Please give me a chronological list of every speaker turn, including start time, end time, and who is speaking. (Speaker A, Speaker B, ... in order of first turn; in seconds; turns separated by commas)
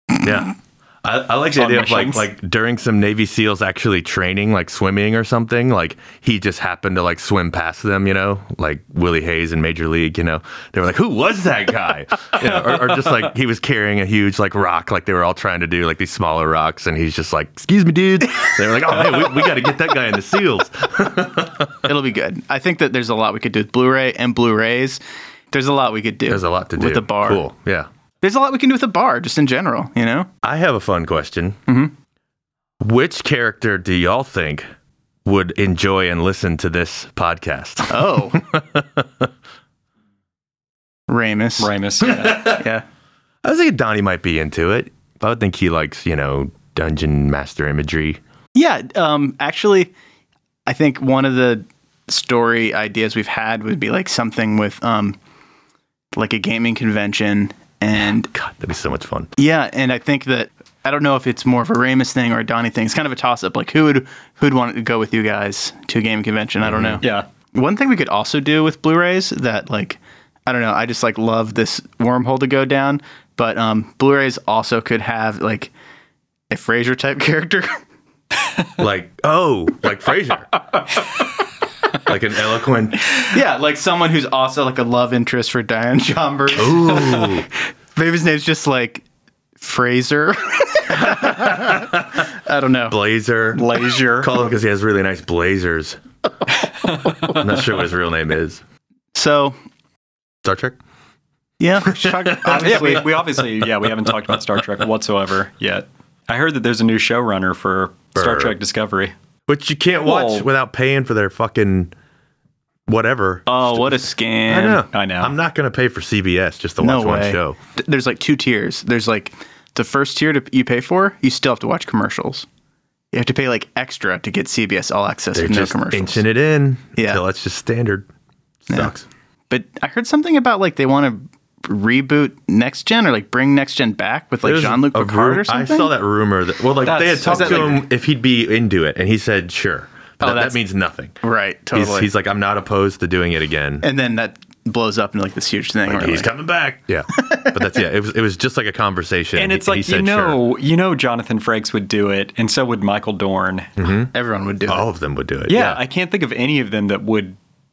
Speaker A: 0.2-21.7, Speaker B: 1.5-2.3, Speaker C: 21.8-25.0, Speaker C: 25.5-27.4, Speaker A: 26.3-27.9, Speaker C: 28.2-30.3, Speaker A: 30.4-31.6, Speaker C: 31.7-31.9, Speaker A: 32.8-34.7, Speaker A: 35.2-39.3, Speaker C: 37.9-38.4, Speaker C: 41.1-41.7, Speaker B: 41.6-42.6, Speaker A: 42.0-42.6, Speaker C: 42.4-42.8, Speaker A: 43.4-48.2, Speaker C: 48.5-49.9, Speaker C: 50.7-55.2, Speaker C: 56.1-58.3, Speaker A: 58.3-59.3, Speaker C: 59.4-75.7, Speaker A: 66.6-67.0, Speaker C: 76.5-77.8, Speaker A: 78.8-80.5, Speaker A: 82.0-83.0, Speaker C: 83.2-89.0, Speaker A: 86.5-87.5, Speaker C: 89.6-93.0, Speaker A: 91.0-92.2, Speaker A: 92.9-96.0, Speaker B: 93.5-94.3, Speaker B: 96.8-97.3, Speaker A: 97.3-98.6, Speaker C: 99.1-99.6, Speaker A: 100.4-100.8, Speaker C: 101.6-103.2, Speaker A: 101.9-102.9, Speaker B: 102.4-109.1, Speaker A: 108.1-108.5, Speaker A: 109.5-111.9, Speaker B: 110.0-110.5, Speaker A: 112.9-117.6, Speaker C: 113.5-114.8, Speaker B: 114.9-115.3, Speaker C: 116.8-122.5, Speaker C: 123.1-126.2, Speaker A: 125.3-128.1, Speaker C: 127.0-127.2, Speaker A: 128.7-129.1, Speaker C: 128.7-128.9, Speaker C: 129.5-135.9, Speaker A: 134.4-141.1, Speaker C: 136.8-137.8, Speaker C: 140.2-140.6, Speaker C: 141.2-142.1, Speaker A: 141.7-143.8, Speaker C: 143.8-146.3, Speaker A: 145.9-150.4, Speaker C: 147.1-147.6, Speaker B: 149.3-153.7, Speaker A: 153.8-154.1, Speaker C: 154.1-154.8, Speaker A: 154.7-155.8, Speaker B: 155.5-157.4